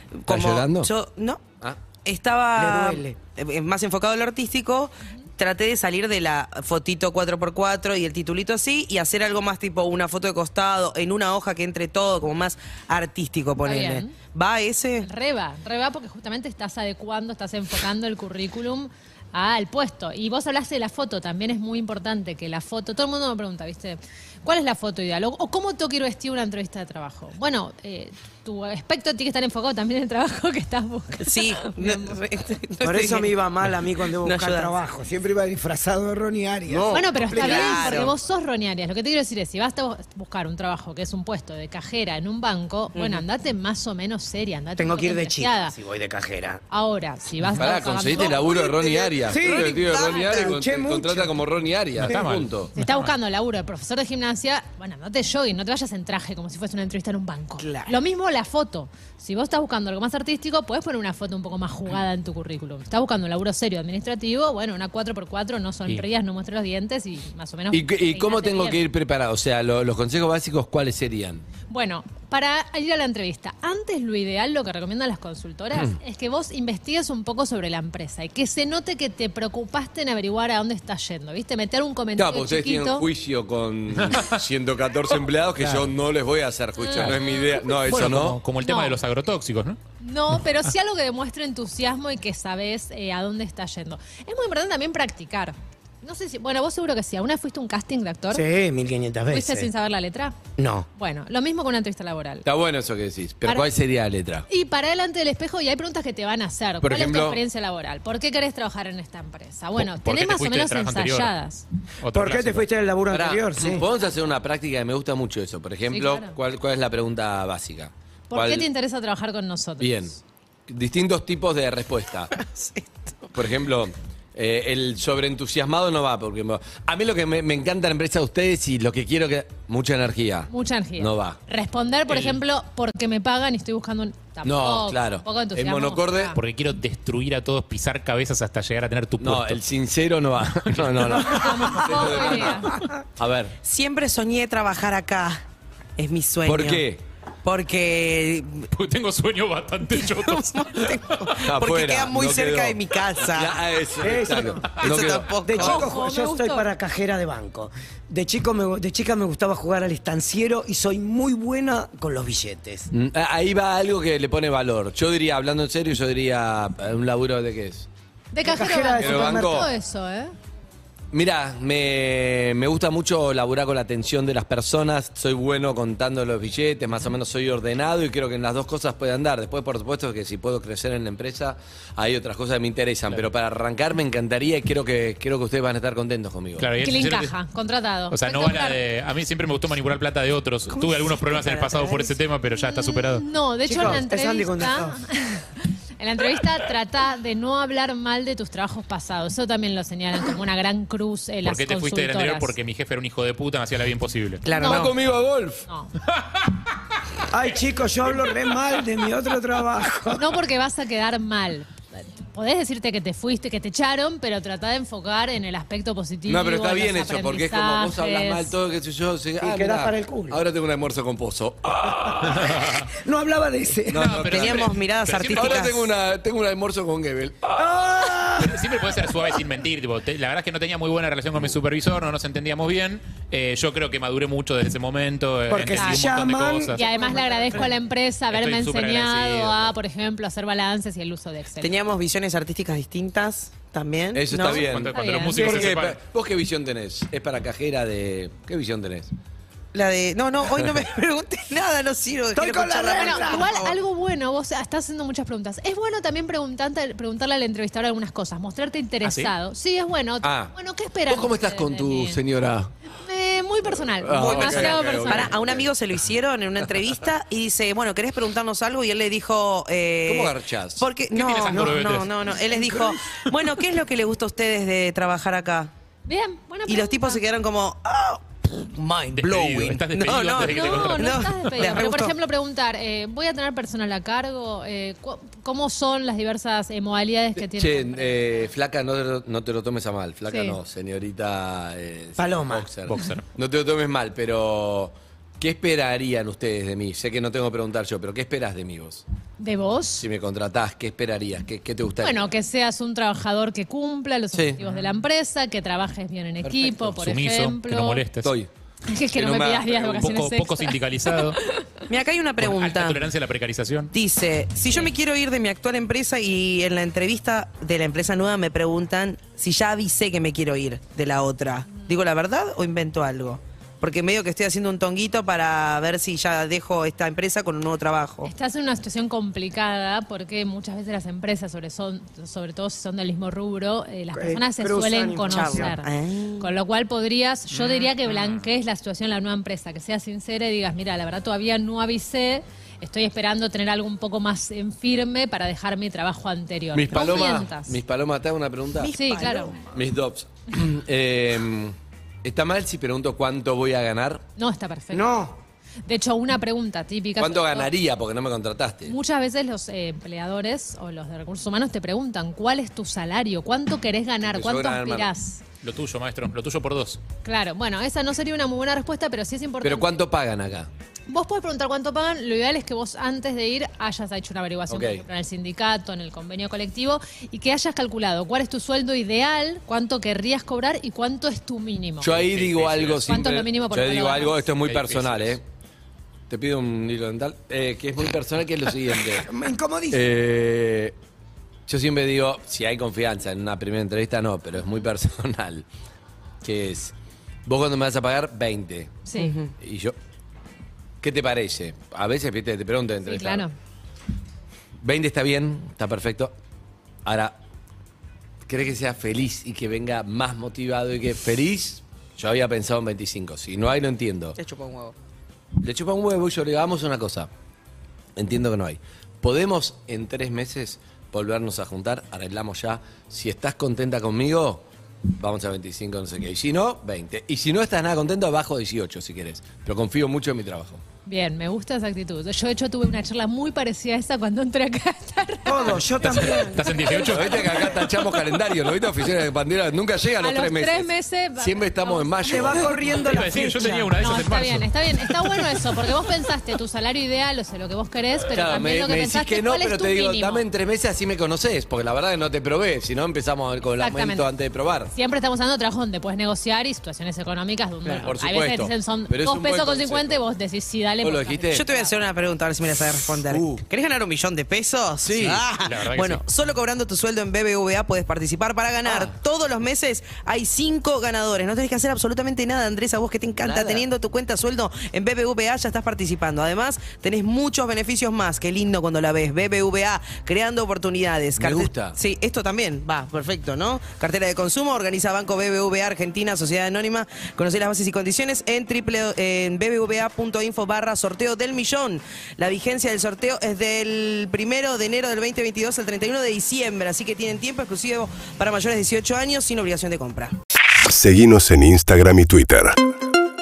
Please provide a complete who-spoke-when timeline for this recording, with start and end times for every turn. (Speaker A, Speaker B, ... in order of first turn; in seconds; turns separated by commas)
Speaker A: 0.1-1.4, Speaker B: 0.3-0.9, Speaker A: 2.0-15.1, Speaker C: 2.5-3.1, Speaker D: 13.6-14.1, Speaker D: 15.0-32.2, Speaker A: 31.2-33.3, Speaker C: 32.8-38.1, Speaker A: 34.2-34.7, Speaker A: 36.7-38.1, Speaker D: 36.9-45.8, Speaker A: 42.9-43.2, Speaker C: 44.8-46.6, Speaker D: 46.7-48.4, Speaker B: 47.6-52.7, Speaker C: 48.3-51.4, Speaker A: 49.1-50.4, Speaker E: 52.0-53.1, Speaker D: 52.7-68.8, Speaker A: 57.6-57.9, Speaker B: 67.7-71.4, Speaker D: 71.7-83.1, Speaker B: 82.2-88.4, Speaker E: 84.0-84.3, Speaker E: 85.6-85.9, Speaker D: 86.8-87.9, Speaker E: 87.8-89.8, Speaker D: 88.6-89.0, Speaker D: 90.0-98.4, Speaker C: 98.3-99.7, Speaker D: 99.3-100.3, Speaker C: 100.6-100.8, Speaker D: 100.9-102.5, Speaker B: 102.4-104.5, Speaker D: 103.4-103.7, Speaker D: 104.5-111.6, Speaker B: 106.8-107.4, Speaker E: 109.8-111.3, Speaker E: 112.0-112.7, Speaker C: 112.1-113.9, Speaker B: 113.1-118.7, Speaker D: 115.9-116.4, Speaker D: 118.3-120.1, Speaker B: 119.8-120.2, Speaker B: 120.7-122.3, Speaker A: 122.3-122.9, Speaker B: 123.3-131.4, Speaker D: 130.5-136.4, Speaker E: 132.1-132.4, Speaker B: 134.4-136.3, Speaker E: 136.3-139.6, Speaker B: 139.2-143.5, Speaker E: 140.6-141.3, Speaker D: 141.1-142.8, Speaker A: 143.6-145.4, Speaker A: 146.0-146.8, Speaker B: 146.4-147.0, Speaker A: 147.4-148.7, Speaker E: 148.7-151.5, Speaker A: 149.9-153.6, Speaker B: 151.4-155.4, Speaker C: 154.0-154.8, Speaker A: 154.8-155.9, Speaker C: 155.3-162.9, Speaker D: 155.5-156.7, Speaker B: 162.9-167.9, Speaker D: 168.3-170.3, Speaker C: 168.4-169.7, Speaker B: 169.0-169.7, Speaker B: 171.1-186.8, Speaker E: 186.6-187.3, Speaker D: 186.8-188.8, Speaker E: 188.1-193.2, Speaker D: 191.1-202.5, Speaker C: 193.6-195.0, Speaker E: 201.4-204.4, Speaker A: 204.4-204.9, Speaker B: 204.5-205.7, Speaker D: 204.6-204.9, Speaker D: 205.7-205.9, Speaker C: 207.3-210.3, Speaker D: 210.1-218.5, Speaker B: 216.3-222.5, Speaker C: 219.4-220.4, Speaker E: 222.4-222.8, Speaker C: 223.0-224.3, Speaker B: 223.9-224.7, Speaker E: 224.0-225.5, Speaker A: 224.3-225.9, Speaker B: 225.3-227.5, Speaker C: 227.6-229.0, Speaker E: 228.4-236.8, Speaker C: 235.5-237.7, Speaker D: 235.7-236.0, Speaker D: 236.7-241.7, Speaker E: 238.3-239.7, Speaker A: 241.6-244.7, Speaker B: 244.1-249.1, Speaker E: 244.6-246.0, Speaker D: 244.9-245.7, Speaker A: 249.7-253.8, Speaker C: 252.3-253.5, Speaker D: 252.9-262.2, Speaker E: 259.0-259.3, Speaker B: 260.2-260.5, Speaker B: 261.1-262.7, Speaker D: 262.9-265.3, Speaker B: 264.0-265.7, Speaker A: 264.2-275.7, Speaker B: 270.1-271.0, Speaker E: 271.1-272.1, Speaker C: 272.5-272.9, Speaker D: 276.1-277.2, Speaker A: 276.7-282.1, Speaker E: 279.1-281.5, Speaker D: 280.4-288.3, Speaker B: 287.4-299.0, Speaker D: 290.3-290.6, Speaker C: 292.2-292.7, Speaker E: 292.9-293.2, Speaker D: 299.4-300.1, Speaker B: 300.0-302.3, Speaker D: 302.0-308.0, Speaker B: 304.3-304.6, Speaker B: 306.5-306.9, Speaker E: 306.9-308.3, Speaker B: 308.2-308.5, Speaker D: 308.9-311.5, Speaker B: 309.1-310.1, Speaker E: 309.9-311.4, Speaker A: 311.9-313.0, Speaker E: 312.4-313.9, Speaker A: 313.9-328.3, Speaker D: 328.2-335.9, Speaker C: 334.1-335.7, Speaker A: 335.3-336.5, Speaker D: 336.4-347.8, Speaker E: 337.5-338.4, Speaker B: 346.7-349.0, Speaker A: 348.8-349.6, Speaker D: 348.9-349.6, Speaker B: 349.6-354.2, Speaker D: 354.4-355.2, Speaker C: 354.9-355.4, Speaker D: 355.9-357.7, Speaker B: 357.2-358.9, Speaker D: 358.8-365.4, Speaker B: 364.2-365.1, Speaker E: 365.6-367.0, Speaker D: 367.2-369.9, Speaker B: 369.6-370.7, Speaker D: 371.1-382.2, Speaker B: 374.7-375.0, Speaker B: 382.0-385.4, Speaker E: 382.1-383.1, Speaker D: 383.1-384.5, Speaker E: 384.6-385.4, Speaker B: 386.3-389.3, Speaker C: 389.1-390.1, Speaker B: 389.9-390.9, Speaker B: 391.7-395.6, Speaker B: 396.4-396.9, Speaker B: 397.4-399.1, Speaker D: 399.1-399.3, Speaker A: 399.2-399.5, Speaker B: 399.6-399.9, Speaker B: 401.0-403.4, Speaker D: 403.0-403.5, Speaker B: 404.8-406.3, Speaker B: 407.0-407.4, Speaker B: 408.5-414.4, Speaker A: 414.4-414.9, Speaker B: 415.6-417.3, Speaker B: 418.2-430.8, Speaker D: 431.0-436.7, Speaker C: 435.4-437.8, Speaker E: 436.4-437.4, Speaker B: 437.0-442.8, Speaker D: 437.3-437.7, Speaker D: 440.2-442.8, Speaker C: 442.2-443.9, Speaker E: 443.0-445.4, Speaker D: 444.0-450.5, Speaker B: 448.3-454.9, Speaker D: 453.8-454.3, Speaker D: 454.9-462.1, Speaker B: 457.9-460.2, Speaker B: 461.0-461.7, Speaker A: 461.5-500.3, Speaker B: 463.2-463.6, Speaker B: 465.0-465.5, Speaker E: 465.6-466.2, Speaker B: 468.8-469.1, Speaker B: 473.4-473.9, Speaker B: 481.4-482.0, Speaker F: 500.8-502.8